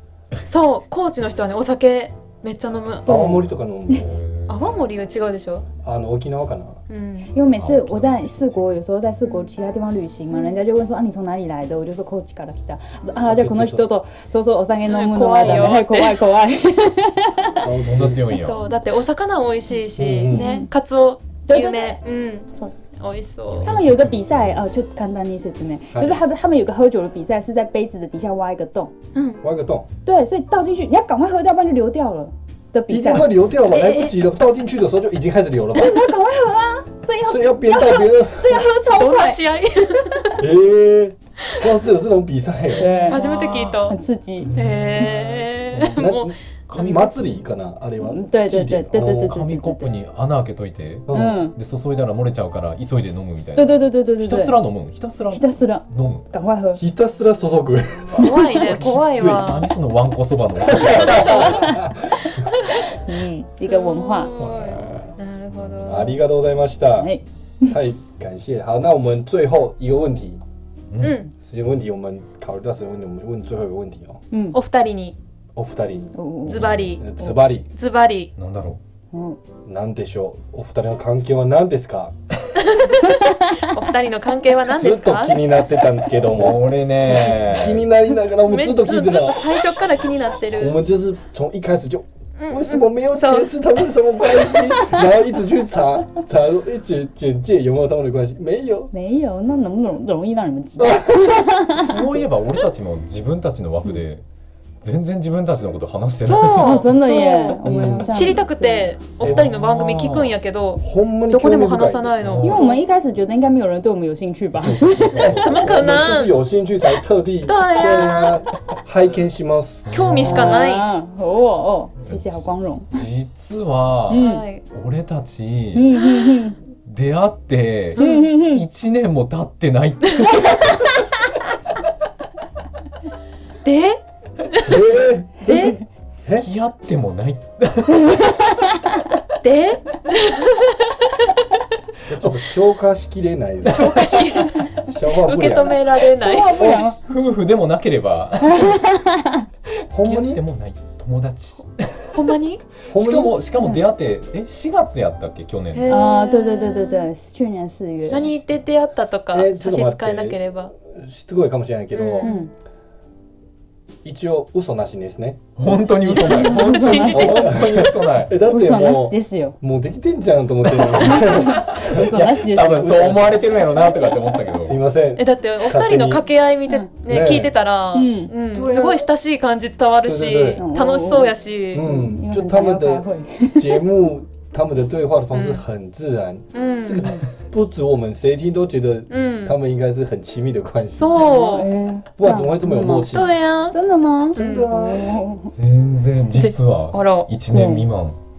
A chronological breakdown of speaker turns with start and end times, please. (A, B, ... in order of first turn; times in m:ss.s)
0:00.4-0:03.1 A
0:03.0-0:04.0 B
0:03.0-0:04.1 C
0:03.9-0:04.6 D
0:04.5-0:05.7 A
0:05.8-0:06.8 C
0:06.9-0:07.3 A
0:07.3-0:17.5 B
0:07.5-0:08.8 D
0:09.2-0:09.5 A
0:10.3-0:10.6 A
0:13.2-0:13.9 C
0:14.9-0:16.2 A
0:17.6-0:18.2 C
0:17.8-0:18.6 D
0:18.1-0:23.7 A
0:20.0-0:20.4 C
0:20.3-0:20.7 B
0:21.5-0:22.0 B
0:23.5-0:24.6 D
0:23.6-0:28.9 B
0:25.9-0:26.2 C
0:29.2-0:29.4 A
0:29.4-0:29.9 C
0:30.0-0:33.3 B
0:32.9-0:36.1 C
0:33.7-0:34.1 A
0:35.7-0:39.4 B
0:37.3-0:38.7 C
0:38.9-0:40.3 A
0:40.4-0:43.2 C
0:42.8-0:44.5 B
0:43.1-0:44.0 A
0:44.4-0:46.0 D
0:44.6-0:47.0 A
0:45.9-0:49.2 C
0:46.7-0:47.4 D
0:48.0-0:49.9 B
0:48.9-0:56.3 D
0:51.1-0:51.4 C
0:51.1-0:51.6 B
0:53.6-0:54.7 B
0:55.3-0:56.8 B
0:56.8-0:59.6 C
0:58.2-0:59.7 A
0:58.5-1:01.8 D
1:00.6-1:02.3 C
1:01.5-1:01.8 B
1:03.0-1:04.3 B
1:03.6-1:06.2 A
1:04.4-1:05.1 D
1:05.9-1:07.1 C
1:07.0-1:07.8 B
1:07.7-1:10.4 C
1:10.9-1:11.2 D
1:11.0-1:11.3 A
1:11.4-1:14.2 C
1:14.3-1:14.6 B
1:14.5-1:15.2 A
1:15.6-1:16.1 C
1:16.2-1:16.7 B
1:16.5-1:17.1 A
1:16.5-1:17.0 D
1:17.0-1:17.7 C
1:17.7-1:18.3 A
1:18.4-1:18.8 D
1:19.1-1:19.4 B
1:19.7-1:22.1 C
1:22.7-1:23.0 A
1:23.6-1:25.4 A
1:24.7-1:29.5 C
1:26.2-1:27.9 D
1:28.4-1:30.8 A
1:30.6-1:38.9 C
1:32.4-1:33.5 A
1:38.9-1:42.2 B
1:40.8-1:44.2 D
1:40.8-1:41.3 C
1:44.8-1:46.9 D
1:46.2-1:52.6 A
1:46.6-1:49.0 B
1:47.6-1:48.4 C
1:49.2-1:50.4 D
1:50.8-1:52.8 C
1:52.3-1:52.7 D
1:52.4-1:55.3 B
1:54.5-1:56.3 D
1:55.1-1:59.9 C
1:55.2-1:56.4 A
1:57.5-1:58.4 A
1:59.9-2:00.6 D
1:59.9-2:00.9 A
2:00.2-2:03.0 B
2:02.0-2:06.0 D
2:04.1-2:04.4 B
2:04.1-2:04.6 A
2:05.7-2:06.6 B
2:06.9-2:10.7 D
2:08.0-2:08.6 B
2:08.0-2:08.2 A
2:13.6-2:14.0 A
2:14.7-2:16.5 C
2:15.5-2:15.8 A
2:16.3-2:18.3 D
2:19.4-2:20.9 A
2:22.1-2:23.8 C
2:23.6-2:24.1 D
2:23.6-2:26.6 A
2:24.9-2:25.8 C
2:26.2-2:27.0 B
2:26.5-2:28.9 D
2:28.5-2:29.4 B
2:29.8-2:32.2 D
2:29.9-2:30.4 C
2:32.1-2:32.6 A
2:32.9-2:33.3 C
2:32.9-2:35.9 D
2:35.7-2:37.1 A
2:35.9-2:38.3 B
2:38.1-2:40.7 A
2:39.3-2:42.3 C
2:41.9-2:42.4 A
2:42.2-2:42.5 B
2:44.0-2:45.4 C
2:45.6-2:48.3 D
2:46.0-2:46.5 C
2:46.2-2:47.5 B
2:46.7-2:47.4 A
2:47.1-2:52.1 C
2:48.5-2:49.6 B
2:51.0-2:52.9 B
2:51.1-2:54.8 D
2:52.7-2:53.5 C
2:54.6-2:56.2 C
2:55.2-3:01.9 A
2:57.1-2:57.5 C
2:57.9-2:58.3 B
2:58.5-2:59.1 C
3:00.0-3:00.6 C
3:00.6-3:03.8 B
3:01.7-3:11.4 C
3:05.3-3:05.6 A
3:06.5-3:07.1 A
3:09.1-3:09.6 A
3:11.0-3:11.7 A
3:11.2-3:15.5 B
3:12.2-3:13.3 C
3:13.1-3:13.8 A
3:14.3-3:15.2 C
3:14.4-3:14.7 A
3:15.6-3:18.2 D
3:16.4-3:17.3 A
3:17.5-3:17.9 B